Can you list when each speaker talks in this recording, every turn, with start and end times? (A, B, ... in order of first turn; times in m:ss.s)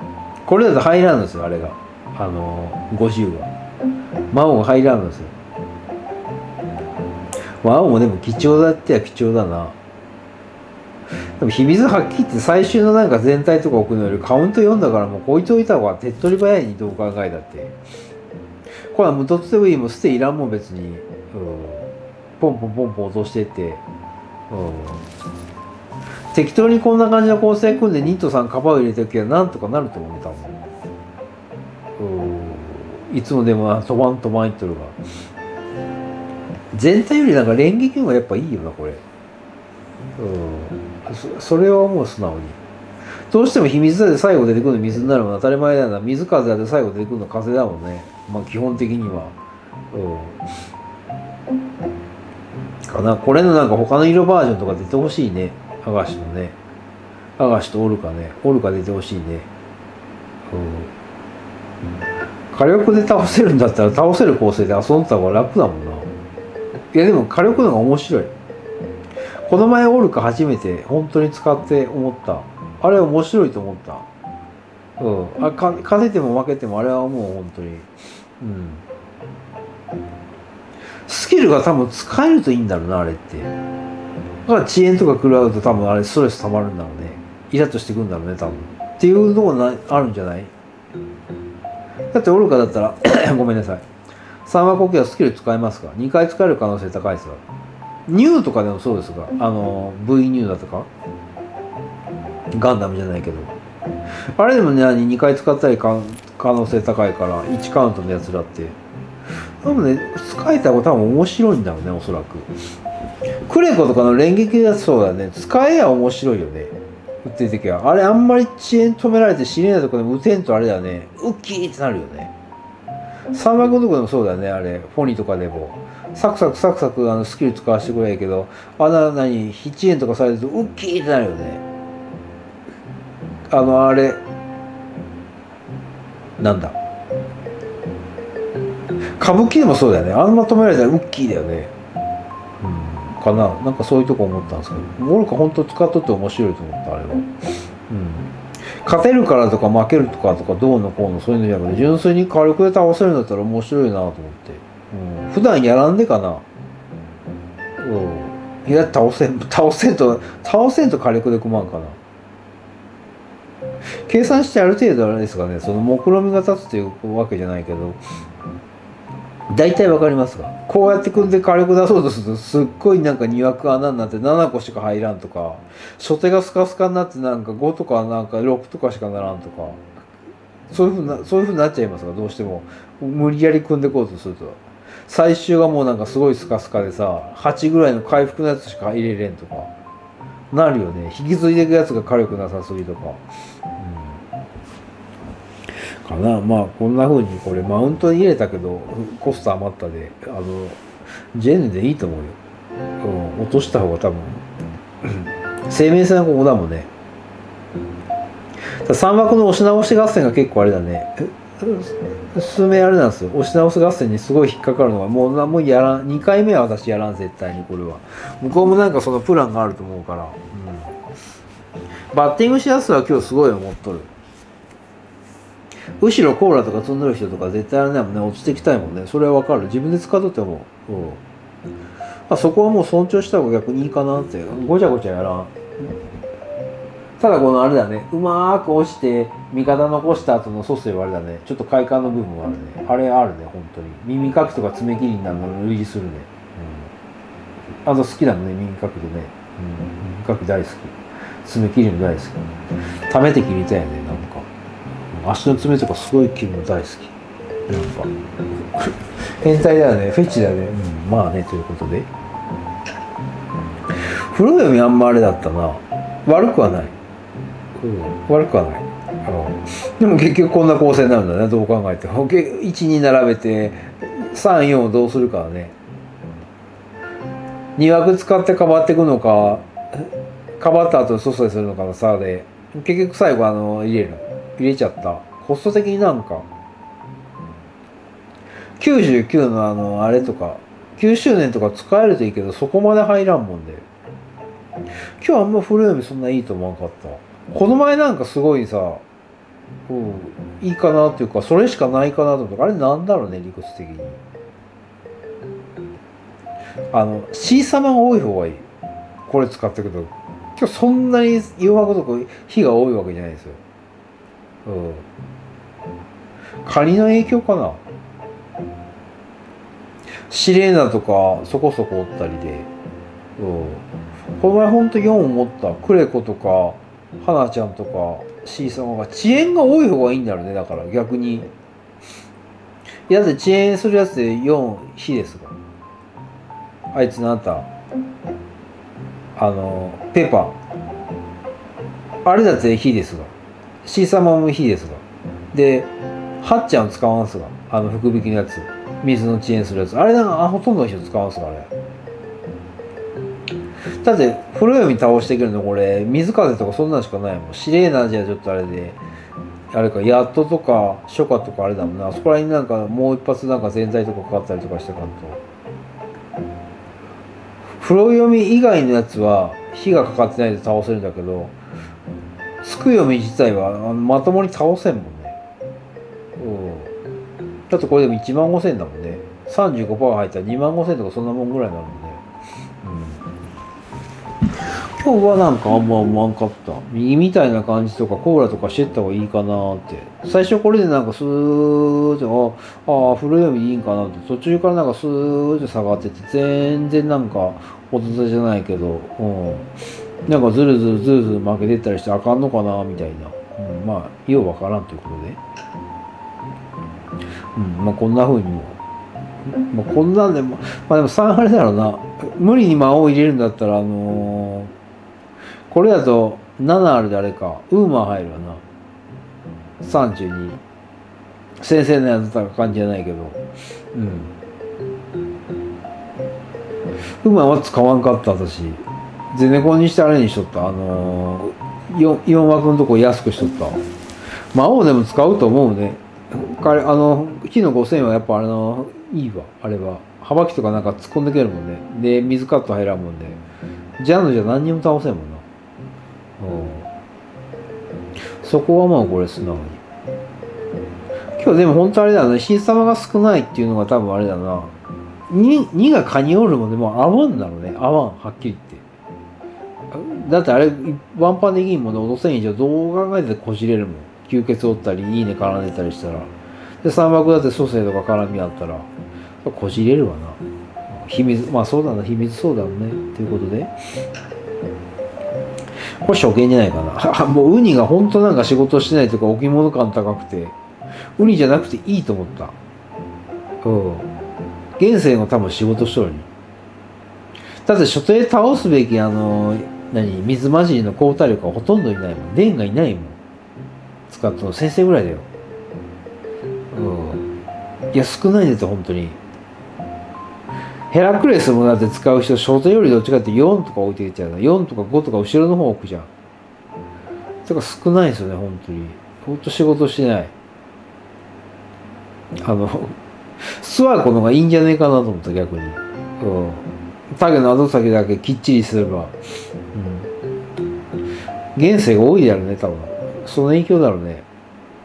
0:00.5-0:03.5 A
0:04.3-0:05.3 A
0:07.6-0:09.8 A
0:11.4-0:17.8 A
0:18.9-0:23.8 A
0:24.5-0:25.0 A
0:26.3-0:30.6 A
0:32.0-0:35.0 A
0:36.7-0:39.0 A
0:40.2-0:42.6 A
0:43.3-0:49.4 A
0:49.9-0:50.4 A
0:52.9-0:56.6 A
0:57.4-0:59.5 A
1:00.5-1:00.9 A
1:02.5-1:06.1 A
1:06.9-1:08.3 A
1:09.5-1:14.1 A
1:15.0-1:18.8 A
1:21.1-1:23.5 A
1:24.5-1:30.5 A
1:32.1-1:33.8 A
1:34.5-1:37.4 A
1:38.1-1:40.9 A
1:42.6-1:43.6 A
1:44.4-1:48.8 A
1:49.6-1:52.5 A
1:53.5-2:02.3 A
2:03.3-2:11.6 A
2:13.5-2:14.2 A
2:16.4-2:16.8 A
2:19.2-2:21.7 A
2:22.6-2:27.3 A
2:27.9-2:28.3 A
2:28.8-2:36.4 A
2:37.8-2:42.0 A
2:44.1-2:48.0 A
2:49.5-2:59.8 A
3:00.7-3:09.7 A
3:10.5-3:13.2 A
3:13.8-3:14.2 A
3:16.0-3:20.8 A
3:21.3-3:22.4 A
3:23.0-3:24.4 A
3:25.0-3:26.9 A
3:28.8-3:40.9 A
3:42.1-3:44.1 A
3:46.0-3:51.2 A
3:52.3-3:55.5 A
3:57.2-4:06.9 A
4:07.8-4:12.4 A
4:13.1-4:14.5 A
4:15.1-4:17.1 A
4:17.7-4:18.1 A
4:18.8-4:22.1 A
4:24.0-4:27.0 A
4:27.8-4:35.8 A
4:37.8-4:46.5 A
4:48.8-4:53.9 A
4:55.2-4:59.0 A
4:59.9-5:04.2 A
5:06.9-5:08.6 A
5:09.3-5:13.6 A
5:14.6-5:15.1 A
5:16.6-5:17.8 A
5:20.3-5:22.7 A
5:23.4-5:23.9 A
5:24.4-5:31.5 A
5:33.1-5:35.6 A
5:36.9-5:37.7 A
5:39.4-5:40.6 A
5:42.2-5:43.3 A
5:43.8-5:51.7 A
5:54.0-5:59.0 A
5:59.7-6:05.4 A
6:07.8-6:11.6 A
6:12.6-6:15.4 A
6:16.4-6:16.9 A
6:17.7-6:22.2 A
6:22.8-6:23.2 A
6:25.0-6:39.7 A
6:40.3-6:45.4 A
6:47.6-6:48.8 A
6:49.7-6:54.7 A
6:55.7-6:58.6 A
6:59.8-7:00.6 A
7:01.6-7:03.4 A
7:03.9-7:04.3 A
7:07.2-7:13.8 A
7:14.5-7:23.4 A
7:24.0-7:25.4 A
7:26.4-7:26.9 A
7:28.4-7:29.8 A
7:31.4-7:34.7 A
7:35.3-7:38.8 A
7:39.9-7:46.3 A
7:46.8-7:48.9 A
7:49.4-7:53.7 A
7:56.0-8:00.6 A
8:01.2-8:02.6 A
8:03.6-8:04.1 A
8:04.8-8:06.3 A
8:07.6-8:13.2 A
8:14.1-8:15.3 A
8:16.7-8:17.3 A
8:17.9-8:19.2 A
8:20.9-8:26.1 A
8:27.5-8:30.3 A
8:32.4-8:39.2 A
8:39.7-8:40.1 A
8:41.6-8:44.3 A